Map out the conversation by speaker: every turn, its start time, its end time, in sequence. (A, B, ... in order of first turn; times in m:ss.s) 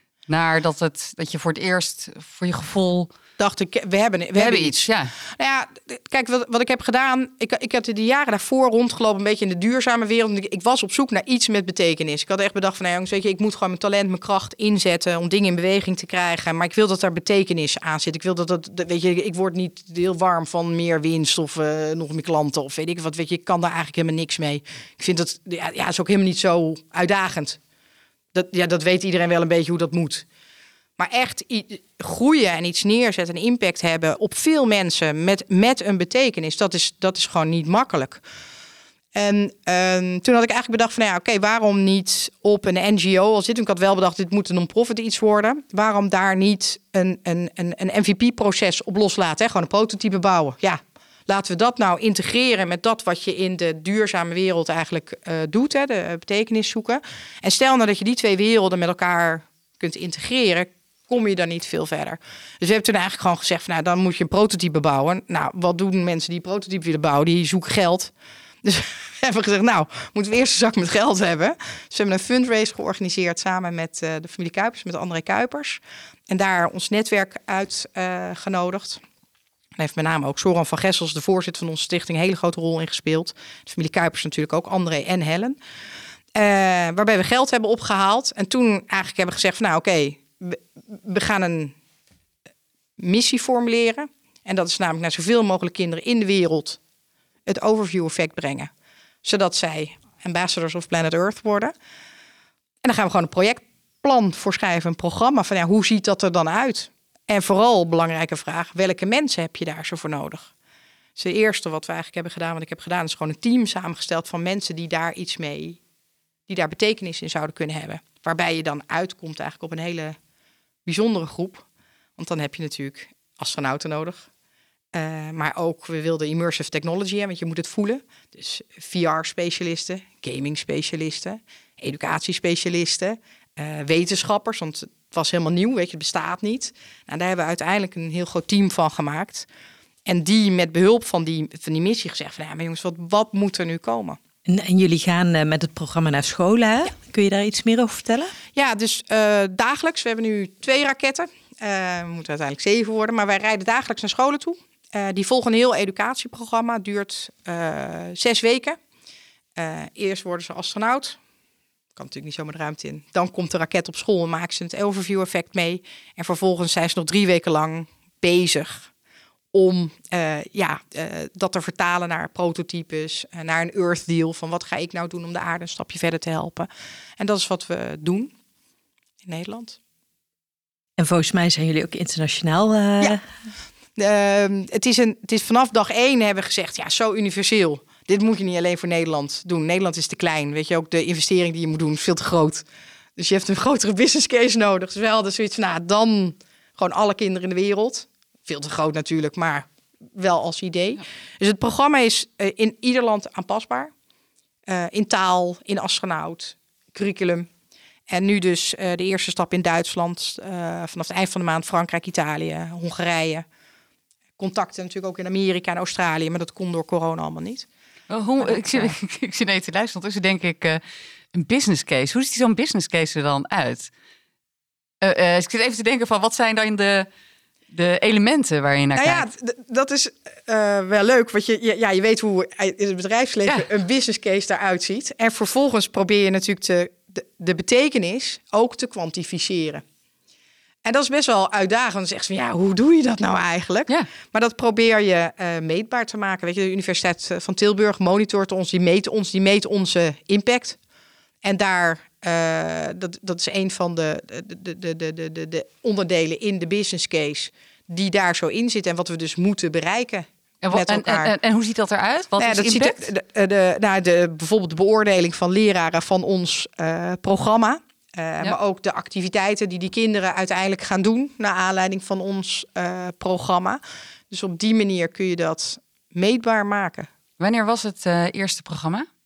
0:00.3-0:03.1 A
0:03.4-0:27.6 B
0:04.4-0:05.1 A
0:28.3-0:30.2 B
0:31.0-0:38.2 B
0:39.2-1:08.1 B
1:08.6-1:19.0 B
1:19.8-1:25.6 B
1:26.4-1:31.7 B
1:33.0-1:36.8 B
1:37.5-1:38.7 B
1:39.2-1:41.7 B
1:42.8-1:50.5 B
1:51.2-1:55.8 B
1:56.5-2:00.2 B
2:00.8-2:01.6 B
2:02.2-2:04.3 B
2:04.9-2:19.5 B
2:20.1-2:24.2 B
2:24.5-2:28.4 C
2:28.6-2:38.8 B
2:39.6-2:41.2 B
2:42.0-2:48.9 B
2:49.5-2:58.3 B
2:59.2-2:59.8 B
3:01.0-3:03.2 C
3:04.0-3:12.6 B
3:13.2-3:23.9 B
3:24.7-3:27.5 B
3:28.1-3:33.4 B
3:34.4-3:37.7 B
3:38.1-3:40.8 A
3:38.4-3:38.9 B
3:41.3-3:43.9 A
3:45.0-3:47.1 A
3:47.7-3:49.3 A
3:49.0-3:59.8 B
4:00.8-4:10.8 B
4:11.4-4:21.3 B
4:20.6-4:23.0 A
4:22.4-4:37.1 B
4:37.4-4:39.1 A